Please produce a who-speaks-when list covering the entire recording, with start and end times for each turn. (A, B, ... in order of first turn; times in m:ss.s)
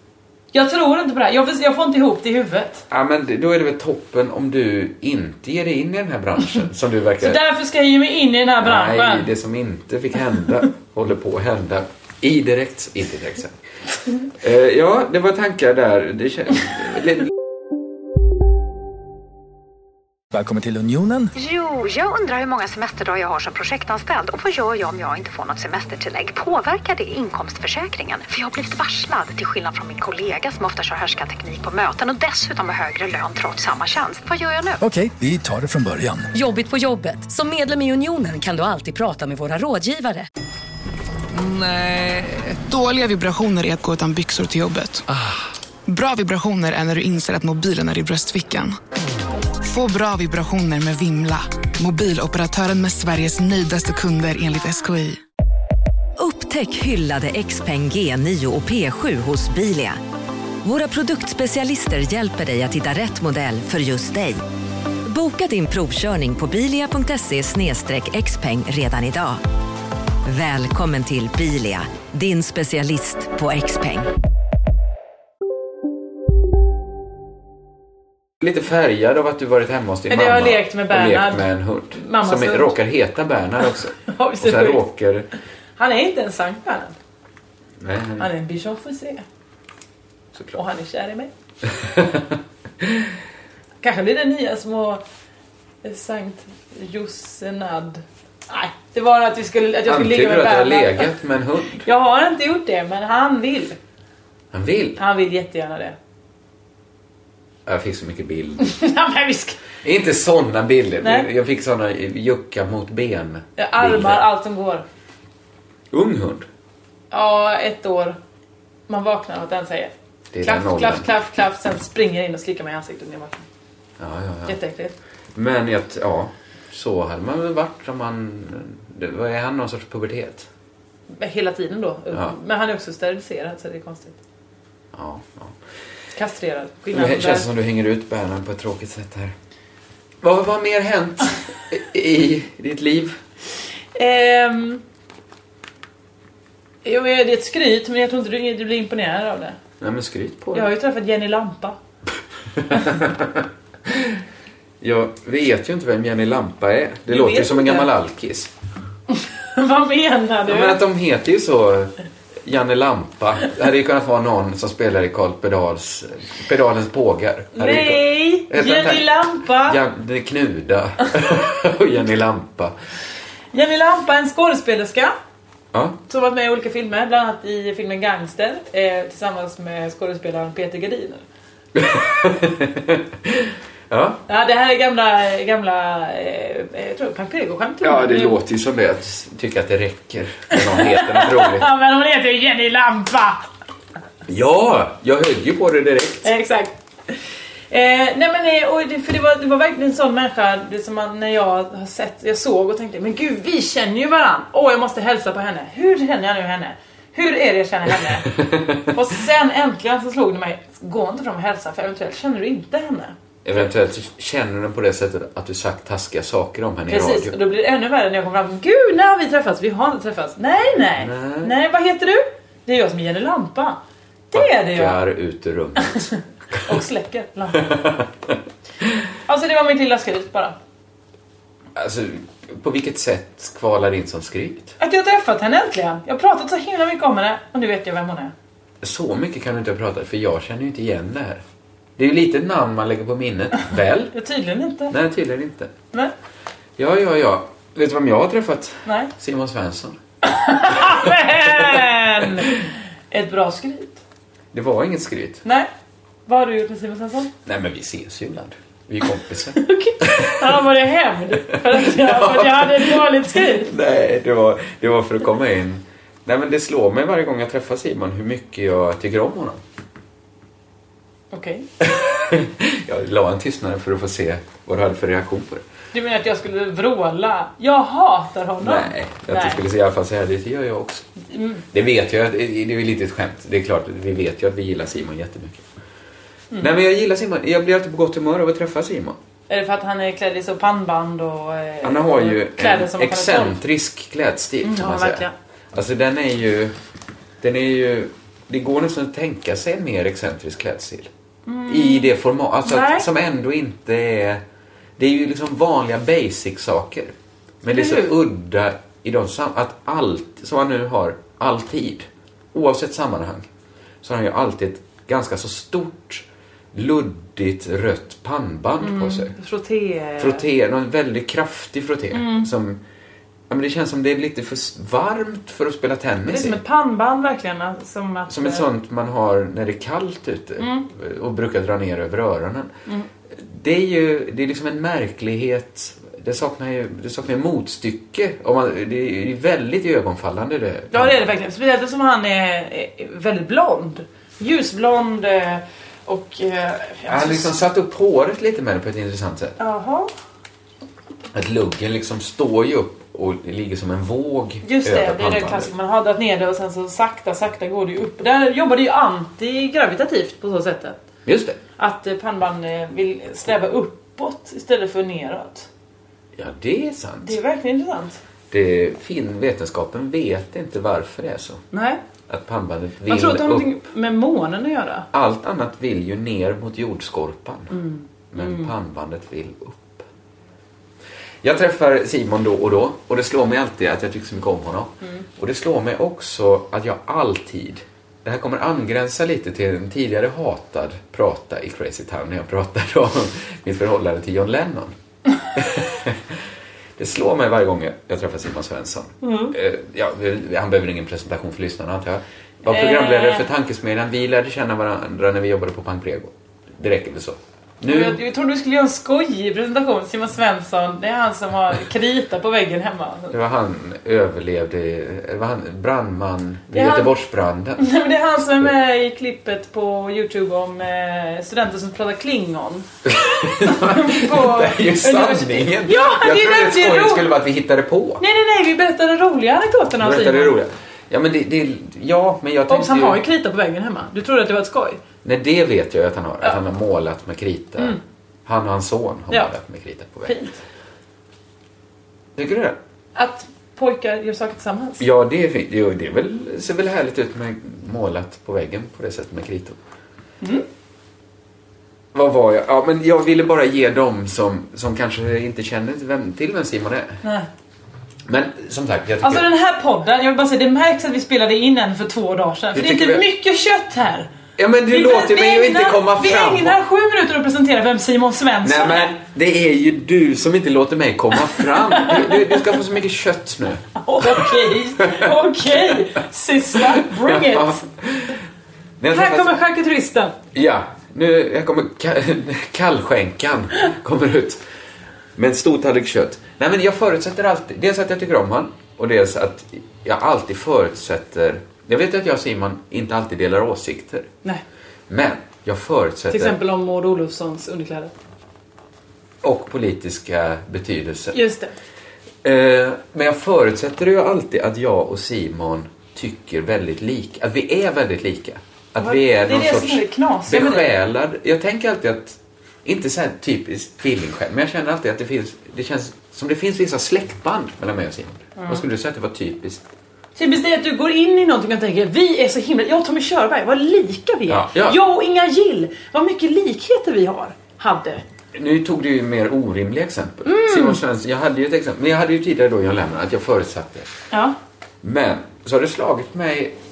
0:00.5-0:02.8 A
0:02.9-0:07.4 B
0:07.2-0:09.3 A
0:08.6-0:13.6 B
0:14.4-0:17.3 B
0:20.3-0:21.3 C
0:21.4-0:34.8 D
0:34.8-0:36.2 C
0:36.3-0:40.3 E
0:41.4-0:41.9 F
0:42.5-0:45.0 F
0:45.8-0:48.7 F
0:49.6-0:55.2 F
0:56.2-1:00.0 G
1:00.6-1:04.4 G
1:05.0-1:09.4 G
1:10.2-1:14.1 G
1:18.4-1:25.3 B
1:20.1-1:22.7 A
1:24.0-1:24.8 A
1:25.8-1:26.9 A
1:27.8-1:28.3 B
1:28.2-1:29.2 A
1:30.5-1:31.3 A
1:31.6-1:33.1 B
1:33.8-1:35.0 A
1:35.8-1:41.1 A
1:39.8-1:41.8 B
1:41.8-1:43.8 A
1:44.5-1:45.0 B
1:45.0-1:46.0 A
1:47.6-1:48.6 B
1:48.6-1:49.6 A
1:49.8-1:54.2 B
1:51.0-1:51.3 A
1:53.6-1:54.8 A
1:55.9-1:56.5 B
1:57.1-1:58.2 A
1:58.9-1:59.9 A
2:00.3-2:01.1 B
2:00.4-2:03.4 A
2:04.0-2:04.5 B
2:04.5-2:04.9 A
2:05.3-2:10.5 B
2:11.1-2:14.2 A
2:14.9-2:15.6 B
2:16.1-2:17.5 A
2:16.9-2:19.3 B
2:20.2-2:23.2 B
2:23.9-2:24.8 A
2:26.8-2:29.6 A
2:29.8-2:30.7 B
2:30.5-2:31.8 A
2:32.6-2:34.2 B
2:34.8-2:38.5 B
2:37.1-2:37.9 A
2:39.1-2:40.8 A
2:40.4-2:41.9 B
2:42.4-2:52.7 B
2:47.5-2:49.8 A
2:53.5-2:55.1 A
2:55.7-2:56.0 B
2:56.1-3:01.2 A
3:01.7-3:04.2 B
3:04.3-3:08.4 A
3:07.8-3:11.7 B
3:10.5-3:13.4 A
3:14.3-3:16.3 B
3:16.2-3:17.2 A
3:17.7-3:28.3 A
3:28.4-3:28.8 B
3:28.9-3:33.1 A
3:33.4-3:37.4 B
3:36.9-3:43.8 A
3:41.0-3:41.5 B
3:44.3-3:45.0 A
3:44.3-3:46.1 B
3:45.8-3:47.7 A
3:47.6-3:48.3 B
3:49.3-3:50.6 A
3:51.8-3:54.7 B
3:54.8-3:58.3 A
3:58.8-4:01.4 B
4:02.0-4:04.1 B
4:04.1-4:04.9 A
4:04.9-4:05.7 B
4:06.8-4:10.0 B
4:08.8-4:09.1 A
4:10.2-4:14.0 A
4:10.6-4:11.8 B
4:14.5-4:15.4 B
4:16.3-4:17.3 A
4:17.4-4:20.6 B
4:19.5-4:23.7 A
4:21.5-4:29.6 B
4:31.3-4:31.6 A
4:31.8-4:35.6 B
4:35.9-4:39.6 A
4:38.6-4:41.0 B
4:41.3-4:41.6 A
4:41.7-4:45.6 B
4:46.6-4:49.2 B
4:49.5-4:53.6 A
4:51.8-4:56.7 B
4:54.6-4:55.3 A
4:57.4-5:01.1 B
5:01.4-5:02.1 A
5:01.7-5:04.4 B
5:02.6-5:03.1 A
5:05.0-5:13.5 B
5:07.7-5:08.1 A
5:14.0-5:19.3 B
5:18.8-5:20.4 A
5:20.2-5:22.8 B
5:22.1-5:22.5 A
5:23.5-5:26.6 B
5:26.2-5:28.6 A
5:28.3-5:32.7 B
5:30.6-5:30.9 A
5:33.3-5:41.2 B
5:40.9-5:47.6 A
5:47.1-5:49.6 B
5:49.6-5:50.1 A
5:51.3-5:55.7 B
5:54.6-6:01.0 A
6:01.2-6:01.6 B
6:01.8-6:05.7 A
6:06.4-6:07.4 B
6:07.2-6:08.2 A
6:08.5-6:11.6 B
6:11.7-6:12.0 A
6:12.3-6:13.7 B
6:13.1-6:15.1 A
6:15.1-6:17.7 B
6:17.7-6:18.7 A
6:18.3-6:20.0 B
6:21.4-6:34.9 B
6:35.5-6:36.4 B
6:37.0-6:48.2 B
6:39.2-6:39.5 A
6:42.7-6:43.5 A
6:47.9-6:53.4 A
6:53.3-6:57.8 B
6:56.7-6:57.1 A
6:57.8-7:02.8 A
7:03.0-7:08.2 B
7:03.4-7:07.3 A
7:08.2-7:10.6 A
7:10.0-7:13.2 B
7:12.7-7:15.0 A
7:15.2-7:20.4 B
7:20.2-7:20.6 A
7:22.4-7:22.8 B
7:23.1-7:25.0 A
7:25.0-7:29.8 B
7:32.1-7:37.2 B
7:38.3-7:39.4 B
7:39.2-7:44.3 A
7:42.7-7:43.2 B
7:44.6-7:46.8 B
7:44.9-7:49.2 A
7:48.6-7:56.0 B
7:51.5-7:52.6 A
7:54.0-7:57.8 A
7:56.7-7:58.4 B
7:59.0-7:59.5 B
7:59.1-8:00.3 A
8:00.5-8:04.6 B
8:05.4-8:14.3 B
8:15.1-8:16.6 B
8:16.3-8:18.1 A
8:19.4-8:21.4 B
8:21.3-8:21.7 A
8:22.4-8:39.8 B
8:29.0-8:30.9 A
8:38.6-8:38.8 A
8:40.4-8:48.2 A
8:44.5-8:45.0 B
8:48.5-8:54.1 B
8:50.4-8:51.0 A
8:55.0-8:56.7 B